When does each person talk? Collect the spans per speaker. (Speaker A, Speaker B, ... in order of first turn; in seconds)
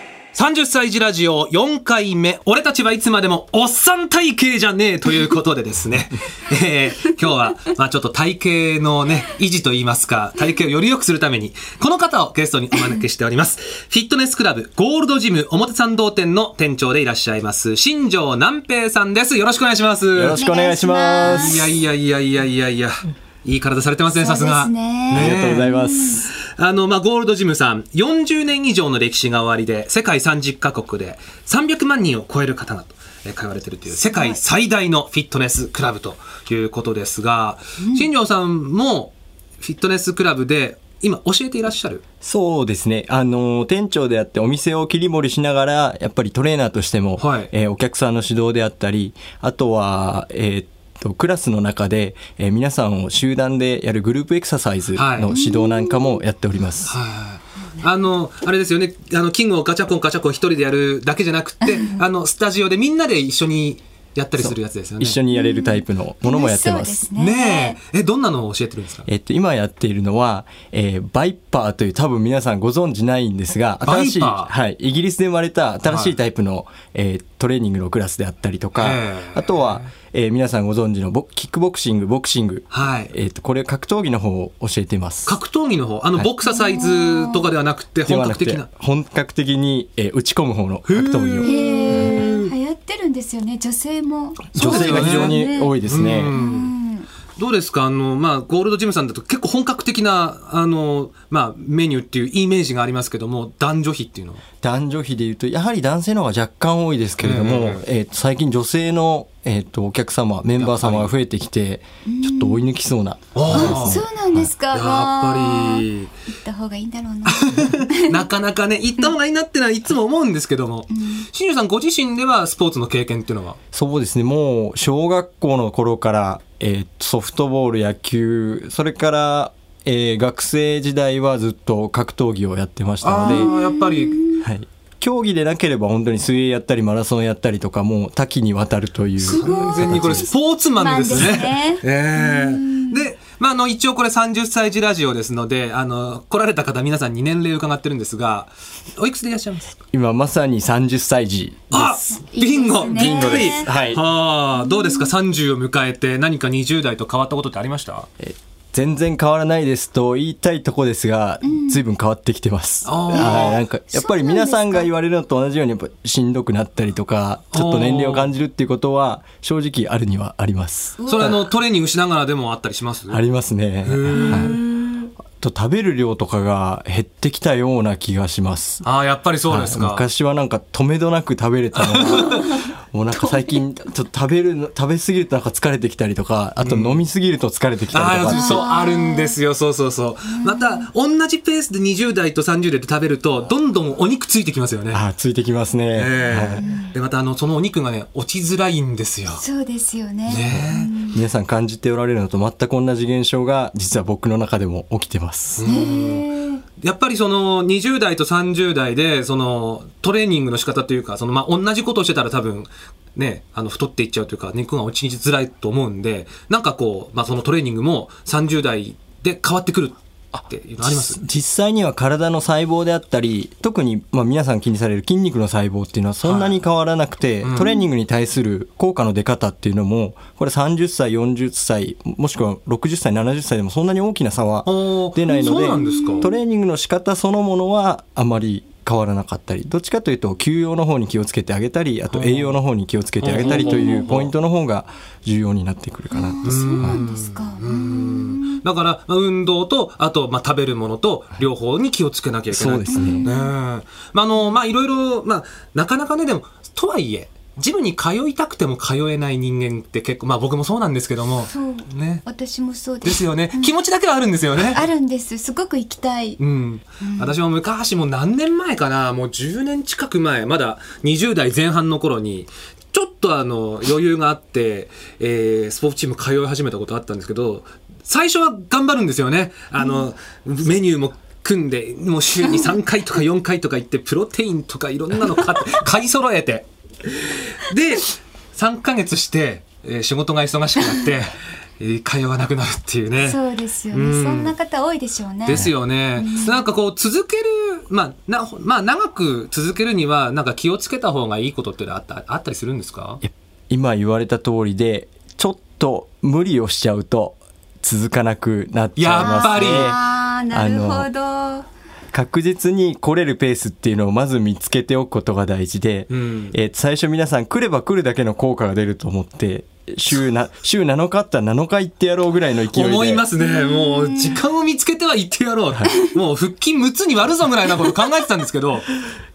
Speaker A: 0.3-20.4, 21.2-25.7, 26.3-42.0, 47.2-47.5, 55.0-55.3, 56.9-65.2, 67.1-69.1, 73.8-74.5, 75.9-76.1, 78.8-79.9, 82.7-83.1, 85.2-88.7, 90.9-92.5, 94.5-96.7, 97.4-104.4, 107.2-107.8, 110.6-111.1, 113.3-114.0, 114.7-116.1, 117.2-123.6, 133.0-134.2, 139.2-149.7, 151.7-158.1, 162.8-163.6, 167.5-168.3, 171.1-173.2, 173.8-174.6, 178.8-180.0, 181.7-182.5, 186.6-187.0, 187.9-195.0, 195.9-199.4, 200.3-200.9, 205.6-221.2, 226.2-226.6, 227.4-227.8, 234.7-236.3, 242.1-242.6, 243.2-244.3, 246.4-262.2, 263.0-264.9, 266.4-293.4, 293.9-294.5, 295.4-303.2, 309.0-309.9, 316.1-316.5, 322.7-328.9
Speaker B: 20.1-21.7, 25.1-26.2, 42.2-56.9, 64.4-67.1, 69.0-85.3, 88.0-92.2, 94.5-96.3, 104.6-114.5, 123.7-133.5, 134.4-140.3, 149.9-152.0, 152.9-154.0, 158.2-171.4, 173.1-174.6, 175.4-178.8, 179.5-188.6, 194.9-196.6, 200.5-205.6, 220.3-247.0, 252.5-253.3, 303.2-311.1, 312.1-323.2
Speaker C: 20.4-21.6, 24.1-26.3, 34.1-34.4, 37.8-38.1, 55.3-56.2, 61.6-62.0, 65.3-67.8, 86.4-87.5, 91.4-95.8, 96.3-97.1, 112.0-112.6, 113.5-118.2, 120.9-121.2, 133.2-134.4, 139.2-143.1, 152.1-153.7, 154.6-155.1, 161.4-161.8, 163.1-164.9, 171.0-171.4, 174.1-175.0, 182.2-182.6, 183.3-183.5, 188.3-189.3, 190.3-190.9, 196.6-196.9, 199.4-201.2, 205.6-206.6, 235.3-236.3, 246.1-248.6, 252.9-253.5, 261.5-263.7, 264.7-266.4, 267.0-267.4, 279.8-280.1, 293.2-296.6, 309.2-311.6, 323.4-324.4